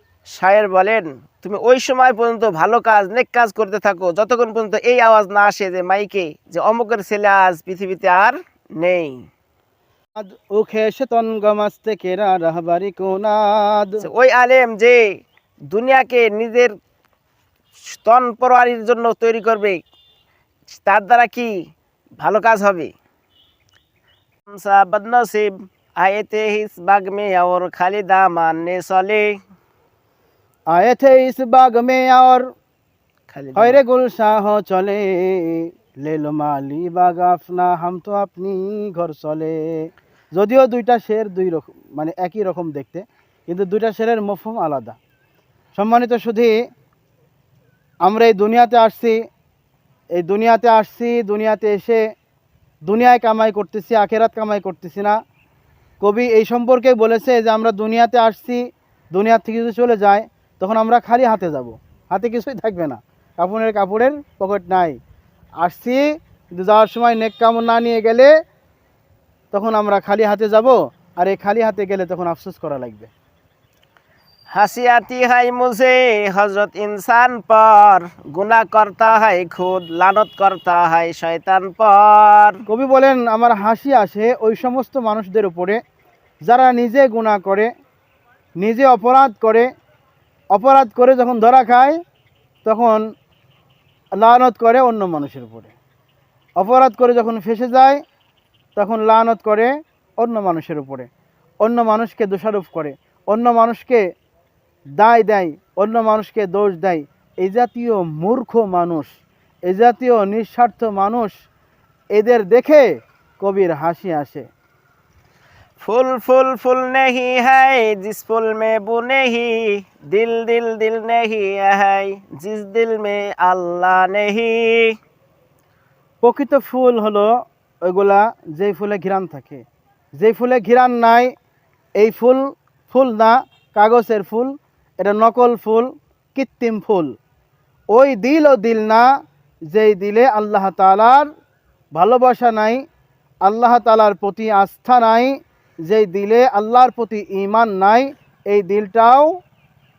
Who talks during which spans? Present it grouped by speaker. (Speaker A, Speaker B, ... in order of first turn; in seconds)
Speaker A: 0.3-9.2, 14.0-15.0, 15.7-16.7, 17.8-19.8, 20.7-21.6, 22.2-22.9, 24.5-29.4, 33.3-33.8, 74.5-82.6, 115.8-125.0
Speaker B: 10.2-14.0, 30.7-32.4, 33.5-45.0, 45.8-46.5, 48.0-49.2, 50.2-52.0, 52.9-55.2, 56.0-65.0, 65.6-68.3, 69.5-73.1, 82.7-85.8, 86.5-87.7, 88.6-89.7, 90.5-92.0, 92.6-93.0, 94.2-95.7, 96.6-98.0, 98.8-101.1, 101.6-104.0, 105.0-109.1, 109.7-111.4, 112.1-112.9, 113.4-114.5, 126.2-127.3, 127.9-129.6, 130.2-131.3, 132.0-137.1, 137.9-139.1, 139.7-141.3, 141.9-142.8, 143.4-149.4